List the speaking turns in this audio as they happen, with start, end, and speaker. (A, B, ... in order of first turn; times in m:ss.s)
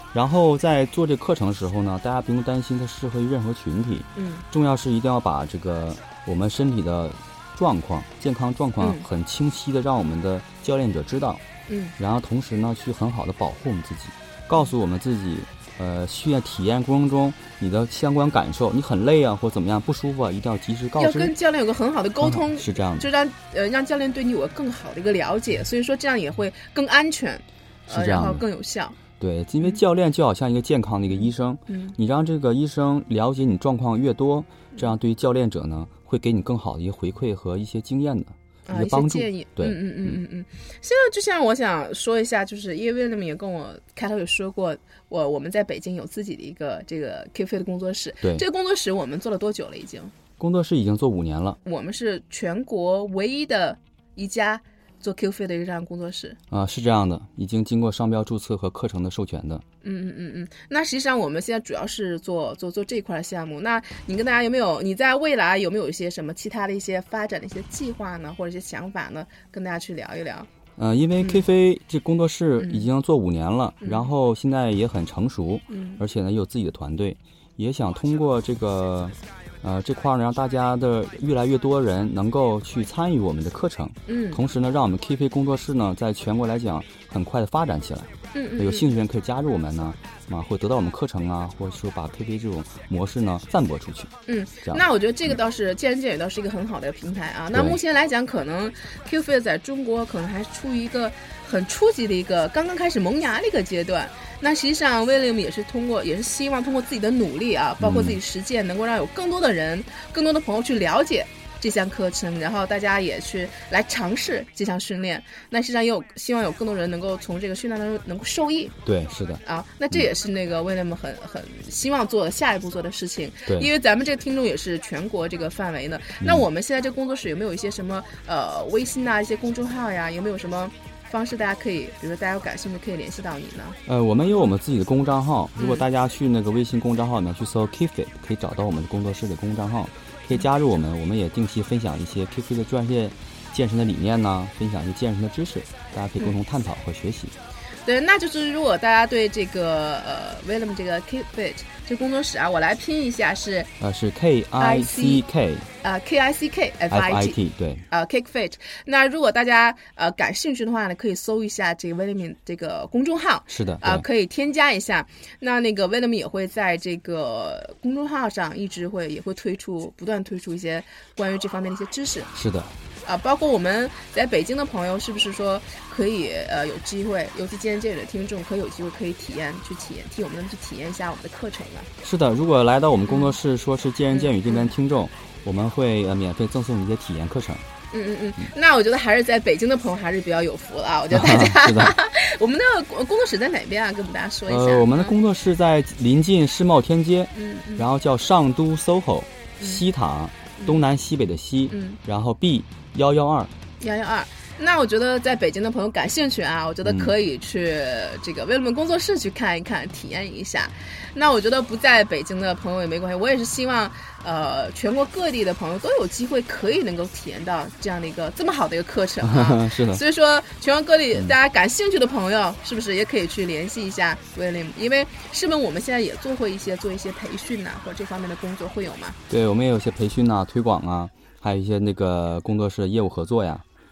0:00.1-0:11.4 A
0:04.2-0:04.4 B
0:08.8-0:09.0 B
0:11.7-0:11.9 B
0:12.0-0:21.3 A
0:21.0-0:29.0 B
0:22.2-0:23.1 A
0:27.9-0:28.4 A
0:29.2-0:40.2 A
0:31.7-0:32.0 B
0:38.7-0:50.1 B
0:50.4-0:51.6 A
0:51.6-0:56.4 B
0:56.5-0:59.6 A
0:59.8-1:10.5 B
1:10.8-1:34.1 A
1:12.6-1:12.9 B
1:13.8-1:14.1 B
1:15.7-1:16.0 B
1:24.1-1:24.4 B
1:28.3-1:28.9 B
1:34.3-1:58.8 B
1:37.5-1:37.8 A
1:47.8-1:48.2 A
1:58.8-1:59.4 A
1:59.4-2:14.5 B
2:06.2-2:06.4 A
2:13.9-2:27.3 A
2:15.6-2:15.8 B
2:27.8-2:33.7 B
2:33.8-2:35.7 A
2:34.6-2:35.2 B
2:35.8-2:52.3 B
2:36.9-2:37.8 A
2:43.5-2:44.0 A
2:52.3-2:52.7 A
2:53.0-3:01.9 B
3:02.0-3:07.6 A
3:03.1-3:03.4 B
3:04.1-3:04.7 B
3:07.9-3:15.1 B
3:11.1-3:11.9 A
3:14.5-3:23.5 A
3:17.3-3:17.9 B
3:21.7-3:22.0 B
3:23.8-3:49.2 B
3:26.8-3:27.1 A
3:39.2-3:40.0 A
3:49.3-3:53.6 A